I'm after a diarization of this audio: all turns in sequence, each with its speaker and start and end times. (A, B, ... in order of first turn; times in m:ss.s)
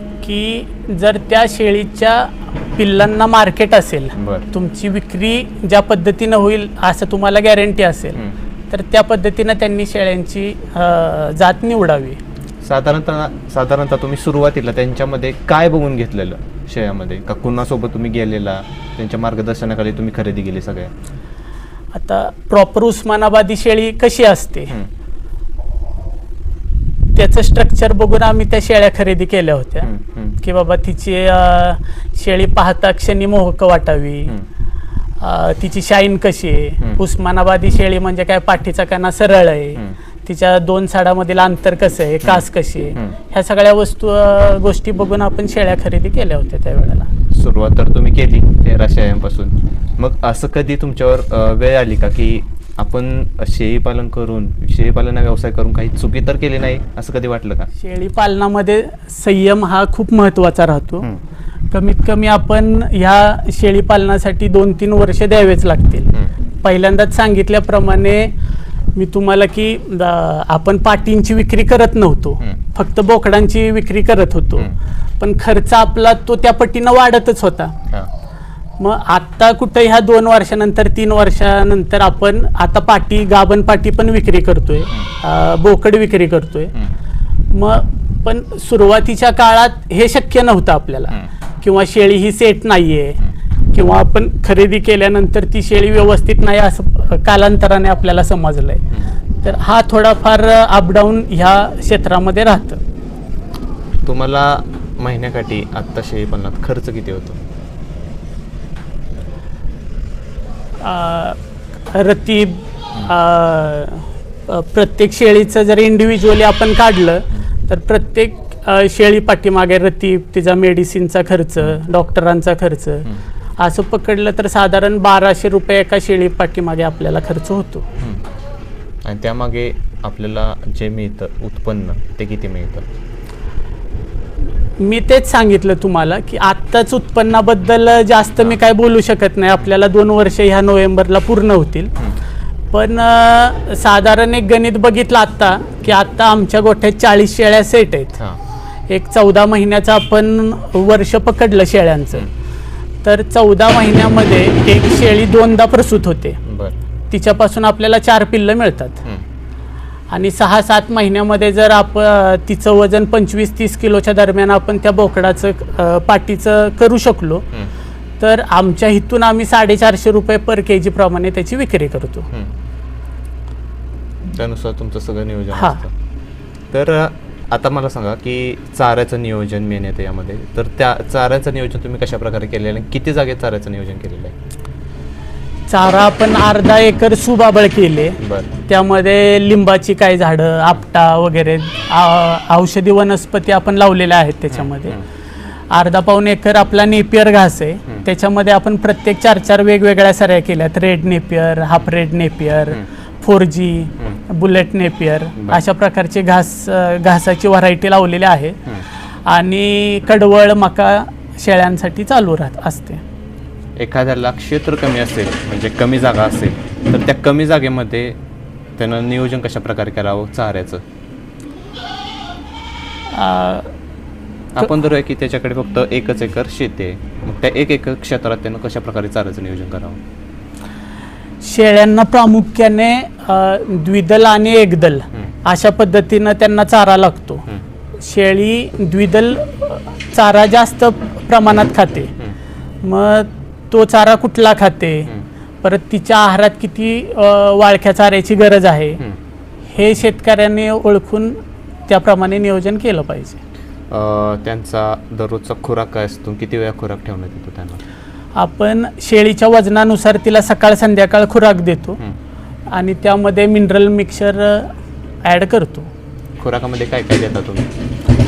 0:00.2-0:12.2 A
0:04.2-0:04.5 B
0:12.6-0:20.9 B
0:21.9-0:24.7 A
0:27.2-0:29.9 A
0:29.8-0:30.4 B
0:30.4-0:34.4 A
0:35.2-0:47.1 A
0:47.3-0:57.7 B
0:57.8-1:01.1 A
1:01.7-1:06.1 A
1:06.6-1:08.3 A
1:09.0-1:17.8 A
1:18.8-1:26.7 A
1:27.5-1:33.2 A
1:33.7-1:38.8 A
1:39.4-1:42.8 A
1:44.0-1:47.4 B
1:50.8-1:51.4 A
1:51.9-2:07.9 A
2:09.0-2:12.8 B
2:14.8-2:21.9 A
2:22.7-2:28.2 A
2:28.9-2:32.3 A
2:33.0-2:36.4 A
2:36.4-2:36.8 B
2:37.1-2:39.0 A
2:40.1-2:47.5 A
2:48.2-2:52.3 A
2:54.3-2:55.9 B
2:55.5-2:55.8 A
2:56.7-3:04.4 B
3:05.7-3:15.0 A
3:08.2-3:08.5 B
3:14.5-3:15.0 B
3:15.7-3:28.6 A
3:29.3-3:33.0 A
3:33.8-3:38.2 B
3:38.8-3:40.8 B
3:43.1-3:43.7 A
3:44.5-3:50.0 B
3:51.4-3:57.5 A
3:58.0-4:02.1 A
4:02.8-4:05.1 A
4:05.6-4:09.0 A
4:09.7-4:13.4 A
4:13.9-4:17.8 B
4:18.4-4:22.0 A
4:22.7-4:24.7 A
4:25.2-4:25.9 A
4:26.4-4:27.7 B